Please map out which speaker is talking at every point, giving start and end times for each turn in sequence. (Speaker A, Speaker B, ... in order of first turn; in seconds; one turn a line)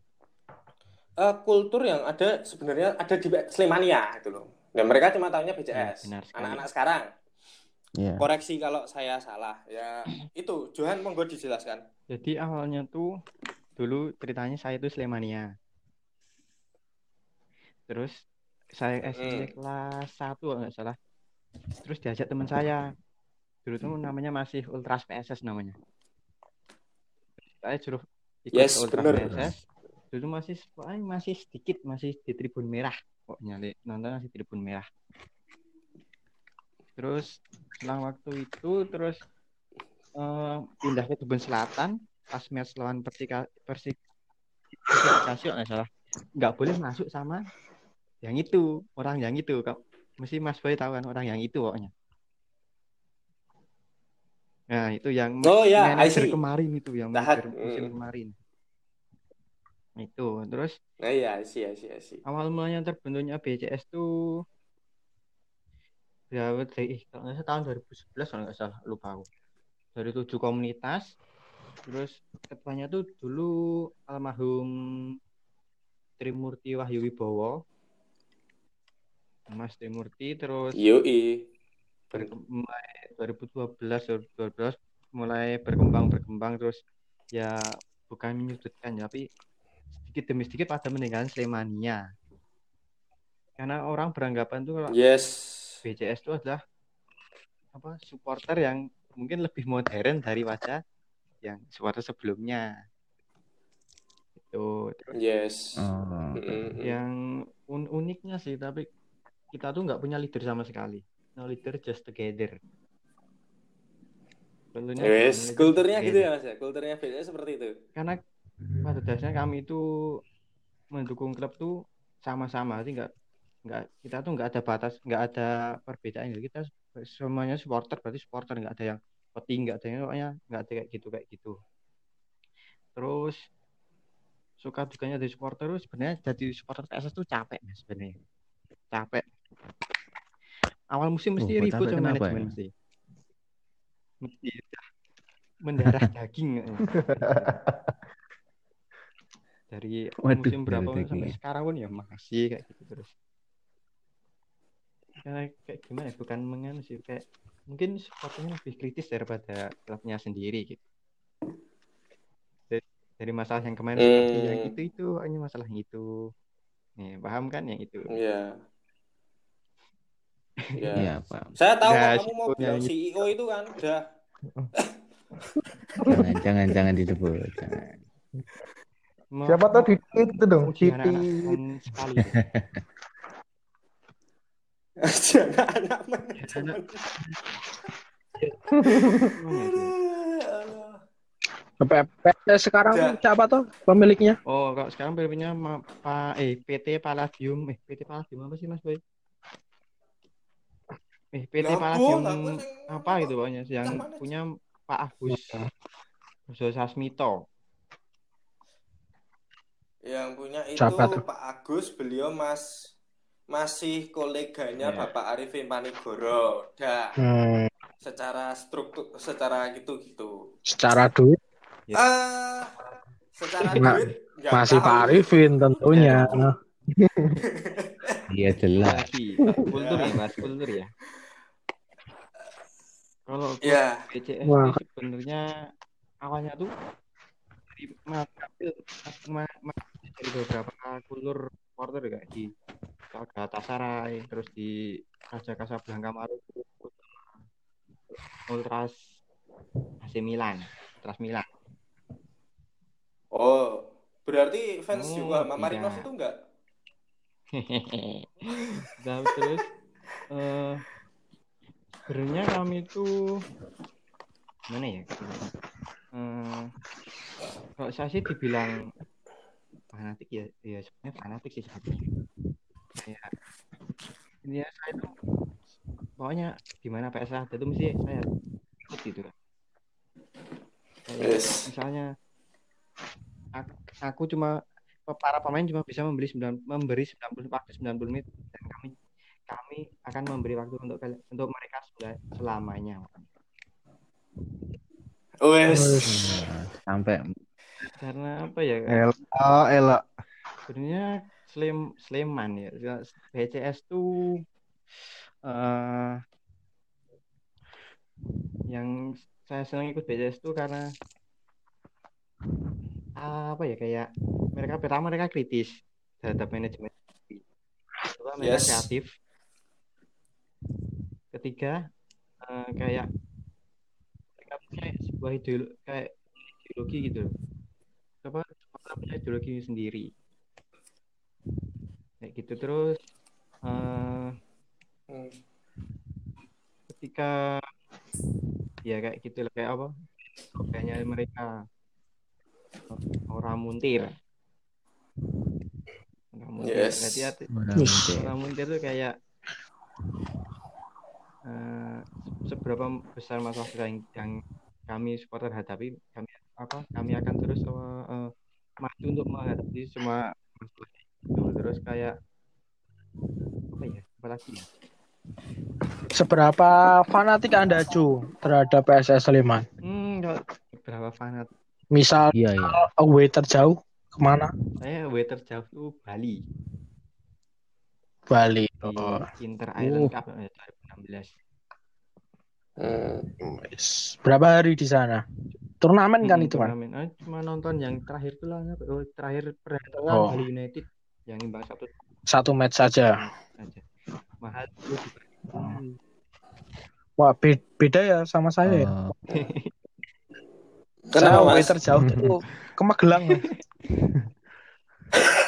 Speaker A: 1.2-7.1
Speaker B: 5.8-6.7
Speaker C: 8.0-8.2
Speaker A: 8.2-11.8
Speaker B: 12.1-13.1
Speaker B: 13.8-15.5
Speaker B: 17.9-18.2
Speaker B: 18.8-21.0
Speaker A: 19.1-19.5
Speaker B: 21.8-22.9
Speaker B: 23.6-25.8
Speaker B: 27.6-34.9
Speaker A: 28.5-29.5
Speaker B: 37.0-39.2
Speaker B: 40.1-44.0
Speaker B: 44.8-47.5
Speaker B: 48.2-51.9
Speaker B: 54.7-58.4
Speaker A: 55.4-56.4
Speaker A: 57.1-57.9
Speaker B: 60.0-60.8
Speaker A: 61.0-62.2
Speaker B: 62.3-64.1
Speaker B: 66.3-69.3
Speaker B: 70.0-71.1
Speaker B: 71.9-73.6
Speaker B: 74.1-75.1
Speaker B: 76.2-77.6
Speaker B: 79.5-80.8
Speaker A: 80.8-81.4
Speaker B: 82.1-86.8
Speaker B: 87.3-89.3
Speaker B: 90.0-92.0
Speaker B: 93.6-95.0
Speaker A: 94.9-95.8
Speaker B: 95.8-96.6
Speaker B: 97.7-100.8
Speaker B: 101.4-102.7
Speaker B: 104.5-105.1
Speaker A: 105.2-105.8
Speaker C: 105.8-106.4
Speaker A: 106.4-107.0
Speaker B: 106.8-108.9
Speaker B: 109.5-112.6
Speaker B: 114.7-116.3
Speaker A: 115.0-117.7
Speaker B: 118.8-120.2
Speaker B: 120.9-123.1
Speaker B: 123.7-131.6
Speaker B: 133.0-133.4
Speaker B: 134.6-138.2
Speaker B: 138.9-139.2
Speaker B: 140.9-142.7
Speaker C: 141.4-142.6
Speaker B: 144.2-144.8
Speaker B: 145.6-147.5
Speaker D: 146.9-147.9
Speaker B: 149.7-153.1
Speaker C: 150.3-151.4
Speaker B: 155.2-160.8
Speaker B: 162.7-166.1
Speaker A: 164.0-164.7
Speaker B: 167.0-168.1
Speaker A: 168.1-168.5
Speaker B: 170.7-170.9
Speaker A: 170.8-174.0
Speaker C: 171.0-171.6
Speaker B: 171.8-172.9
Speaker D: 176.0-176.3
Speaker C: 176.1-177.9
Speaker B: 179.3-180.0
Speaker D: 179.5-181.6
Speaker B: 180.6-182.4
Speaker C: 182.4-182.8
Speaker A: 185.0-187.0
Speaker B: 186.4-186.8
Speaker D: 188.8-189.3
Speaker A: 189.0-191.0
Speaker B: 189.4-189.9
Speaker E: 191.8-194.4
Speaker A: 192.9-193.2
Speaker B: 194.5-199.0
Speaker B: 201.3-205.7
Speaker A: 201.6-204.2
Speaker E: 205.3-205.7
Speaker B: 206.5-207.4
Speaker A: 210.1-212.9
Speaker E: 210.8-211.2
Speaker A: 213.5-217.2
Speaker B: 214.8-215.1
Speaker E: 217.2-217.7
Speaker A: 218.0-220.3
Speaker E: 220.7-221.4
Speaker A: 221.9-222.8
Speaker A: 223.4-226.5
Speaker E: 223.8-224.0
Speaker E: 224.5-226.5
Speaker D: 227.0-227.4
Speaker A: 227.5-228.2
Speaker C: 228.3-229.1
Speaker B: 228.8-230.9
Speaker A: 229.7-230.2
Speaker B: 233.3-235.5
Speaker A: 233.6-234.0
Speaker E: 234.4-234.8
Speaker B: 236.2-236.7
Speaker B: 237.7-242.5
Speaker B: 243.1-244.7
Speaker B: 245.3-247.4
Speaker B: 248.5-249.0
Speaker B: 250.0-251.5
Speaker A: 253.3-256.3
Speaker B: 254.9-256.1
Speaker B: 257.5-259.7
Speaker B: 260.3-260.8
Speaker B: 262.1-263.4
Speaker B: 264.7-265.5
Speaker B: 266.1-266.7
Speaker B: 267.8-268.9
Speaker B: 269.9-272.1
Speaker B: 273.0-273.3
Speaker B: 274.4-275.1
Speaker B: 276.2-278.3
Speaker B: 278.9-279.3
Speaker B: 281.1-282.1
Speaker A: 281.2-281.7
Speaker B: 283.6-284.6
Speaker B: 285.1-289.0
Speaker B: 289.5-293.3
Speaker A: 295.4-296.1
Speaker E: 295.7-296.4
Speaker C: 296.1-297.3
Speaker B: 298.0-299.0
Speaker D: 298.9-300.0
Speaker B: 300.7-304.4
Speaker B: 305.4-306.2
Speaker B: 308.7-310.9
Speaker B: 313.2-317.4
Speaker B: 318.1-319.1
Speaker A: 318.4-318.9
Speaker B: 321.3-321.9
Speaker B: 322.4-323.1
Speaker B: 324.4-327.3
Speaker B: 328.2-330.1
Speaker B: 332.2-332.9
Speaker B: 333.6-334.4
Speaker B: 336.9-337.6
Speaker B: 338.9-339.9
Speaker B: 340.6-341.5
Speaker B: 342.9-344.1
Speaker B: 346.3-347.5
Speaker A: 346.6-347.3
Speaker C: 347.5-348.3
Speaker E: 347.8-348.1
Speaker B: 348.1-349.1
Speaker B: 351.4-362.1
Speaker B: 363.7-364.7
Speaker E: 366.1-369.7
Speaker B: 369.8-371.5
Speaker E: 371.9-374.5
Speaker C: 372.4-372.8
Speaker B: 374.8-376.4
Speaker E: 378.3-379.3
Speaker B: 378.8-381.3
Speaker C: 379.8-380.1
Speaker A: 382.8-383.3
Speaker E: 383.4-385.2
Speaker E: 385.8-386.7
Speaker B: 386.2-391.9
Speaker E: 390.1-390.4
Speaker E: 392.3-393.2
Speaker B: 393.6-393.9
Speaker B: 394.4-395.8
Speaker E: 397.2-398.9
Speaker C: 398.7-399.1
Speaker B: 399.3-399.7
Speaker A: 401.1-401.8
Speaker E: 401.2-403.5
Speaker D: 402.0-402.3